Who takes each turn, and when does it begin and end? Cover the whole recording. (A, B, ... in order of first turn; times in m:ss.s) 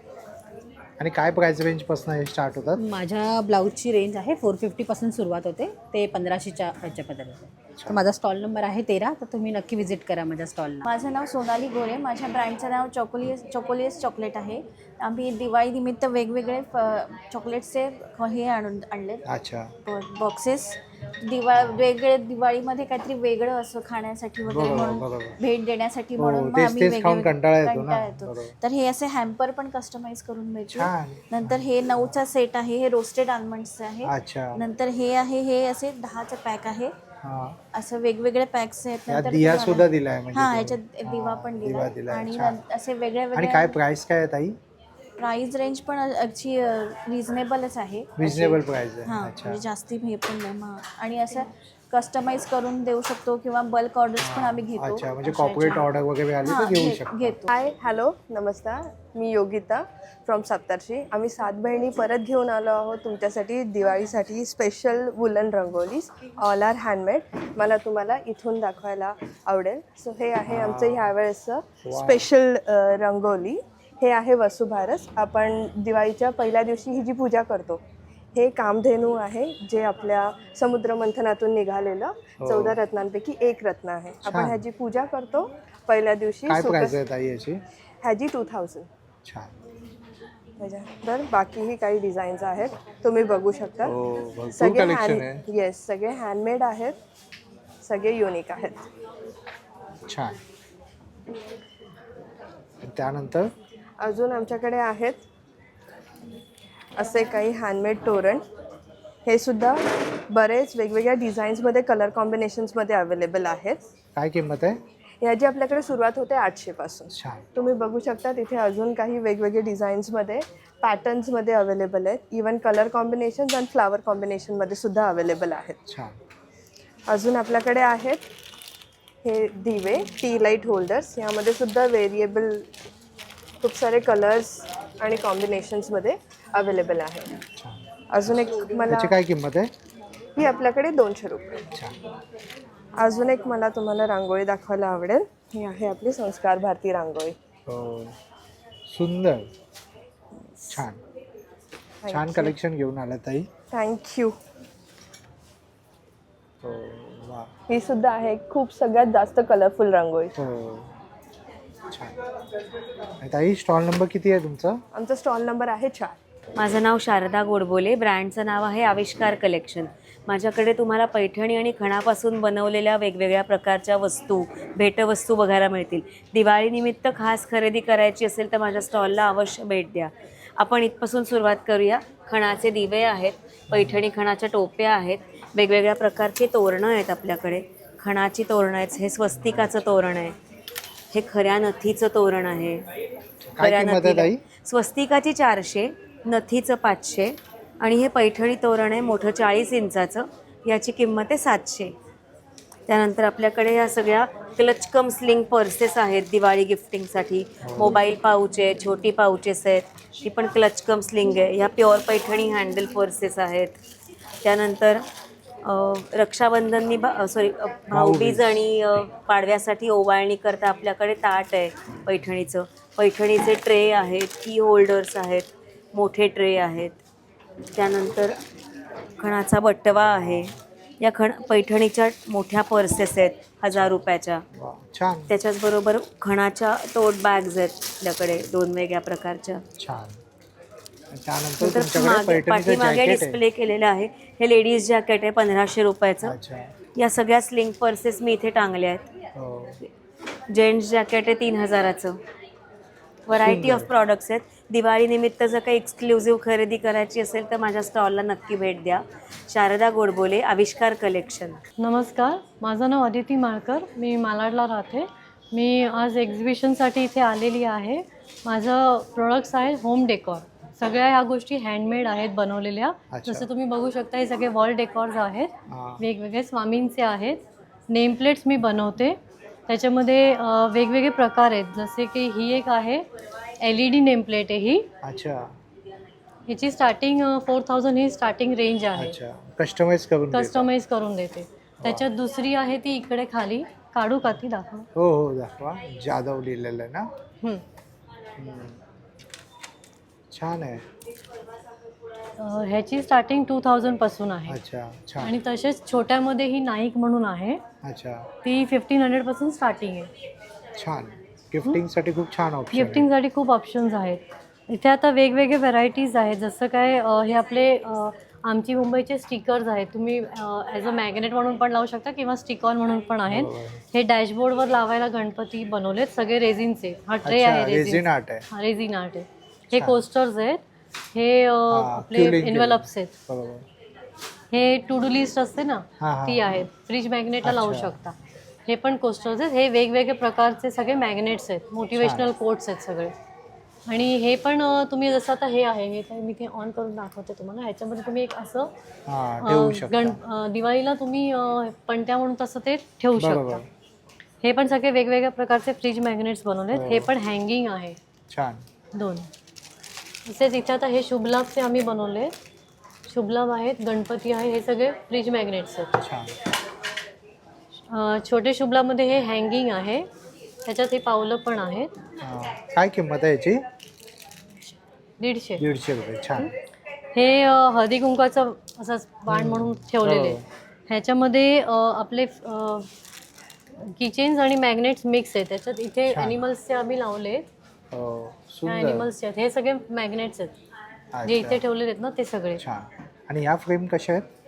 0:01.0-0:02.8 A
0:02.8-0:10.9 B
0:07.8-0:08.0 A
0:10.9-0:19.2 C
0:19.3-0:19.7 A
0:19.8-0:36.9 C
0:21.6-0:21.8 A
0:24.5-0:25.4 A
0:26.2-0:28.5 A
0:30.7-0:31.7 A
0:34.1-0:34.6 A
0:37.2-0:37.6 A
0:37.7-0:43.8 C
0:39.1-0:42.6 A
0:43.4-0:44.6 A
0:45.2-0:55.9 C
0:48.2-0:49.6 A
0:54.2-0:57.4 A
0:56.4-0:57.5 C
0:57.5-1:17.8 D
1:10.5-1:11.1 A
1:11.9-1:12.2 A
1:18.4-1:27.0 D
1:22.4-1:22.8 A
1:24.2-1:24.6 A
1:26.5-1:27.6 A
1:28.0-1:28.9 D
1:29.3-1:29.5 A
1:30.6-1:33.9 D
1:33.8-1:35.4 A
1:34.5-1:37.0 D
1:37.8-1:38.9 D
1:40.1-1:40.4 A
1:42.8-1:43.5 A
1:44.0-1:45.2 D
1:47.0-1:48.4 D
1:49.3-1:53.8 D
1:54.2-1:54.8 A
1:55.2-2:05.8 D
1:57.1-1:57.4 A
2:05.9-2:06.2 A
2:07.1-2:08.2 D
2:09.2-2:12.7 D
2:13.6-2:17.3 D
2:18.1-2:19.2 D
2:18.9-2:19.7 A
2:20.4-2:21.6 D
2:23.0-2:27.4 D
2:27.7-2:28.2 A
2:28.9-2:29.5 A
2:30.7-2:31.0 A
2:32.0-2:32.5 D
2:32.1-2:33.5 A
2:33.7-2:34.4 D
2:36.6-2:37.5 A
2:37.7-2:40.3 D
2:40.4-2:40.9 A
2:43.2-2:44.8 A
2:44.9-2:46.2 D
2:46.6-3:10.4 E
3:03.7-3:04.0 A
3:09.3-3:09.7 A
3:11.1-3:12.8 E
3:13.5-3:14.4 A
3:13.6-3:21.9 E
3:22.9-3:33.8 E
3:27.6-3:28.0 A
3:34.4-3:35.0 E
3:35.6-3:47.0 E
3:37.9-3:38.7 A
3:47.7-3:48.4 E
3:49.2-3:54.4 E
3:49.9-3:50.6 A
3:54.5-3:55.3 A
3:55.3-3:59.6 E
3:59.8-4:00.2 A
4:01.1-4:03.4 A
4:01.6-4:06.4 E
4:06.2-4:06.7 A
4:07.0-4:09.1 E
4:09.4-4:09.8 A
4:10.5-4:12.2 E
4:13.3-4:21.6 E
4:13.4-4:13.9 A
4:21.8-4:43.0 F
4:33.1-4:33.5 A
4:35.7-4:36.0 A
4:43.6-4:44.9 F
4:45.0-4:45.5 A
4:46.5-4:49.2 F
4:49.0-4:50.7 A
4:50.3-4:54.9 F
4:55.0-4:57.1 A
4:58.4-4:58.8 A
5:00.3-5:00.8 A
5:02.4-5:04.6 F
5:04.5-5:05.3 A
5:05.2-5:07.6 F
5:07.8-5:08.3 A
5:08.4-5:10.1 F
5:10.8-5:13.1 A
5:12.7-5:30.6 F
5:23.3-5:23.8 A
5:27.2-5:28.4 A
5:31.1-5:33.1 F
5:31.7-5:33.6 A
5:34.5-5:38.2 F
5:36.0-5:36.5 A
5:37.4-5:38.0 A
5:38.7-5:43.1 F
5:42.0-5:42.3 A
5:43.9-5:48.7 F
5:49.1-5:50.2 A
5:49.4-5:53.6 F
5:53.2-5:53.6 A
5:54.4-5:58.0 F
5:56.7-5:57.1 A
5:58.3-5:58.6 A
5:58.9-5:59.3 F
6:00.3-6:02.3 F
6:03.1-6:05.9 F
6:06.0-6:06.3 A
6:07.9-6:10.1 F
6:10.6-6:11.9 F
6:12.2-6:13.6 A
6:15.2-6:15.6 F
6:15.6-6:16.5 A
6:17.1-6:22.9 F
6:19.3-6:20.4 A
6:24.0-6:27.5 F
6:26.1-6:26.4 A
6:27.9-6:29.1 A
6:28.6-6:30.5 F
6:31.2-6:31.6 A
6:31.2-6:32.6 F
6:32.6-6:34.3 A